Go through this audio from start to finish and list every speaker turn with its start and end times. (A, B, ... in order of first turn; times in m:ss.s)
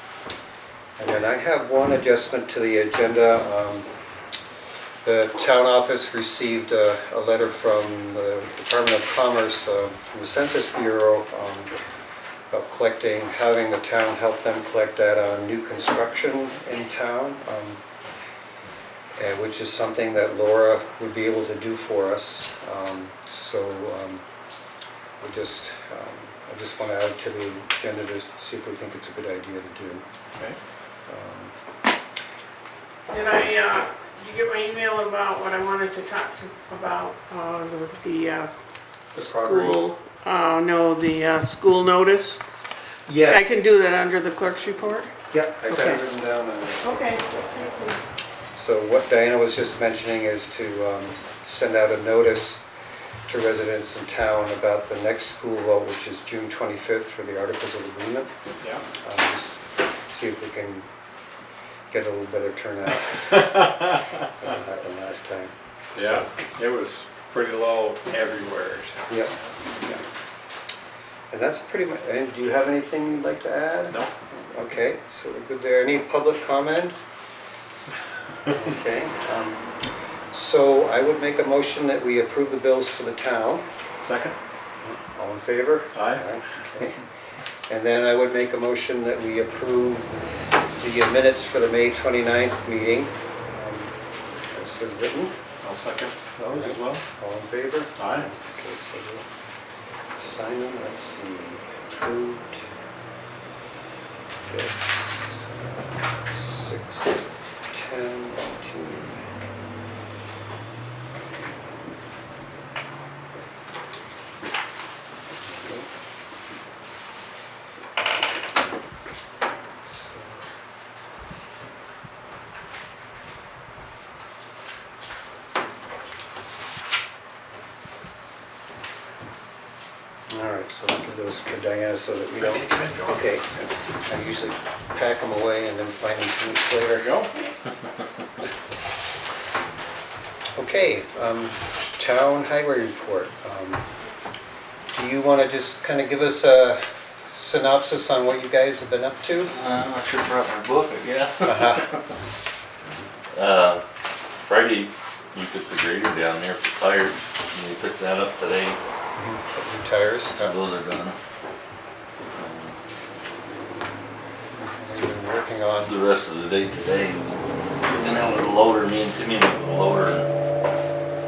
0:01.0-0:03.9 A
0:05.0-0:11.7 A
0:12.5-0:17.8 A
0:19.2-0:24.2 A
0:25.2-0:30.0 A
0:31.1-0:31.5 A
0:33.1-0:38.5 B
0:39.2-0:39.8 A
0:39.2-0:42.4 B
0:43.0-0:43.5 A
0:43.3-0:45.1 B
0:45.3-0:47.5 A
0:45.7-0:46.0 B
0:46.8-0:48.0 B
0:48.6-0:52.6 A
0:53.3-0:58.3 A
0:59.0-1:00.9 A
1:01.9-1:06.3 A
1:05.9-1:09.1 C
1:09.1-1:09.3 A
1:11.3-1:16.9 A
1:18.5-1:19.7 A
1:20.3-1:23.7 A
1:24.0-1:24.4 C
1:24.8-1:27.0 A
1:25.9-1:26.2 C
1:27.7-1:30.1 A
1:30.8-1:33.9 A
1:34.5-1:35.3 A
1:35.6-1:37.0 C
1:36.5-1:39.2 A
1:38.0-1:38.3 C
1:40.2-1:42.6 A
1:44.5-1:49.2 A
1:55.4-1:55.9 A
1:59.8-2:00.4 A
2:10.3-2:17.1 A
2:12.4-2:13.2 C
2:16.9-2:17.3 C
2:20.6-2:23.8 A
2:24.9-2:29.5 A
2:29.4-2:32.1 D
2:31.4-2:31.9 A
2:33.3-2:33.8 D
2:34.4-2:38.8 D
2:39.2-2:40.6 A
2:40.3-2:41.2 D
2:42.3-2:42.8 D
2:44.6-2:45.9 A
2:45.8-2:50.3 D